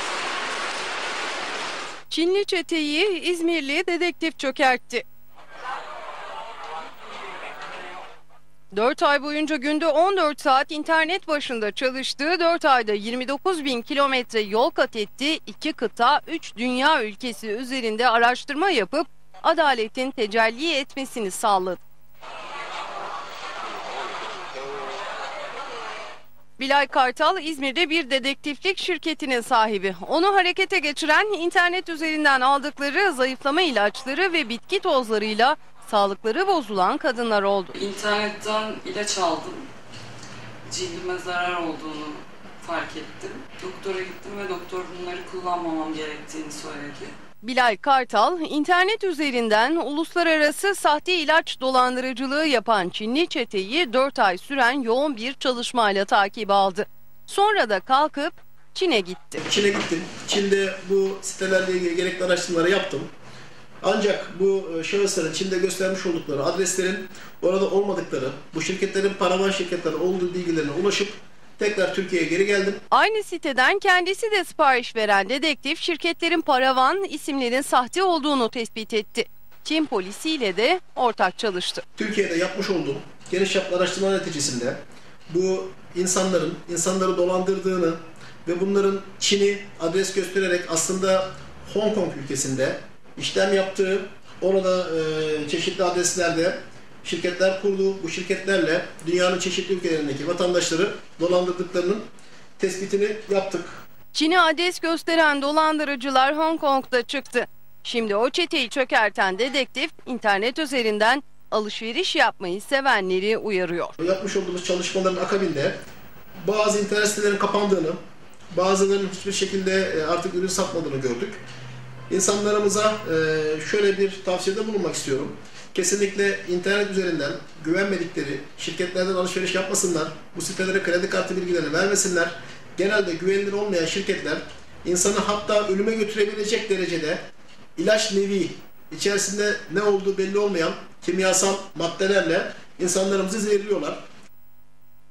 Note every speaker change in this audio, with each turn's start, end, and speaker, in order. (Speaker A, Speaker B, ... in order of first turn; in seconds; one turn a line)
Speaker A: 2.1-5.0
Speaker A: 8.7-21.8
Speaker A: 26.6-37.8
Speaker B: 37.8-39.7
Speaker B: 40.7-47.1
Speaker A: 47.4-59.4
Speaker C: 59.4-63.1
Speaker C: 63.8-72.8
Speaker A: 72.9-81.8
Speaker C: 82.0-84.8
Speaker C: 85.3-102.0
Speaker C: 102.6-103.8
Speaker A: 104.1-113.9
Speaker C: 114.0-115.8
Speaker C: 116.4-118.0
Speaker C: 118.5-121.4
Speaker C: 122.1-137.2
Speaker C: 137.8-144.0